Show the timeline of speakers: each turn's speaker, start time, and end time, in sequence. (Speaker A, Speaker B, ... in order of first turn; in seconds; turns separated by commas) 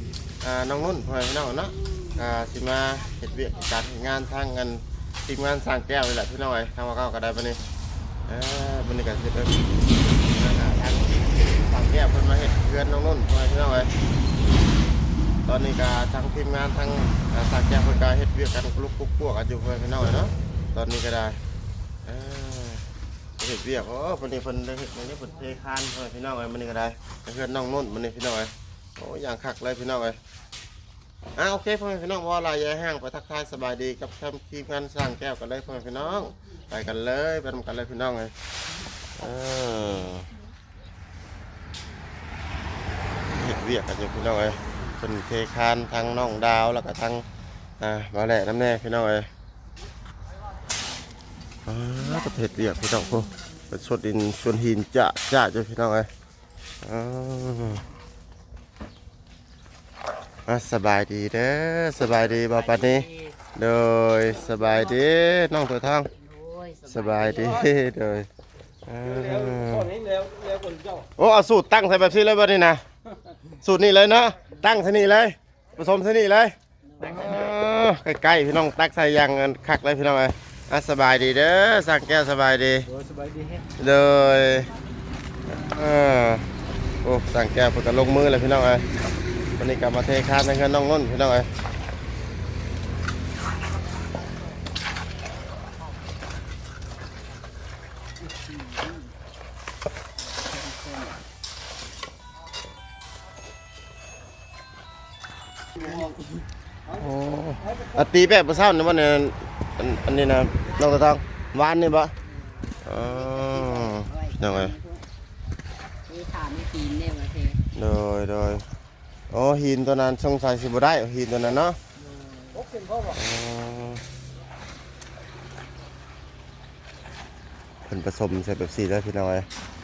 Speaker A: 0.4-7.6, Speaker A: 8.3-9.6, Speaker A: 10.3-13.9, Speaker A: 15.5-21.4, Speaker A: 22.1-30.2, Speaker A: 31.4-38.3, Speaker A: 39.2-40.3, Speaker A: 43.3-47.3, Speaker A: 47.8-49.3, Speaker A: 51.7-56.1, Speaker A: 56.8-57.9, Speaker A: 60.5-66.1, Speaker B: 62.4-63.4, Speaker B: 66.2-67.6, Speaker A: 66.9-68.3, Speaker A: 68.8-70.0, Speaker C: 69.4-71.1, Speaker A: 71.2-72.8, Speaker A: 73.5-82.9, Speaker C: 83.0-83.6, Speaker A: 83.8-84.7, Speaker A: 85.5-86.5, Speaker A: 87.0-88.9, Speaker A: 89.6-91.5, Speaker B: 100.8-101.1, Speaker A: 106.9-112.1, Speaker B: 110.7-111.0, Speaker A: 112.8-114.8, Speaker B: 112.9-115.0, Speaker B: 116.1-117.6, Speaker A: 117.8-118.6, Speaker A: 119.3-121.8, Speaker C: 122.5-123.1, Speaker A: 123.1-124.0, Speaker A: 127.9-129.5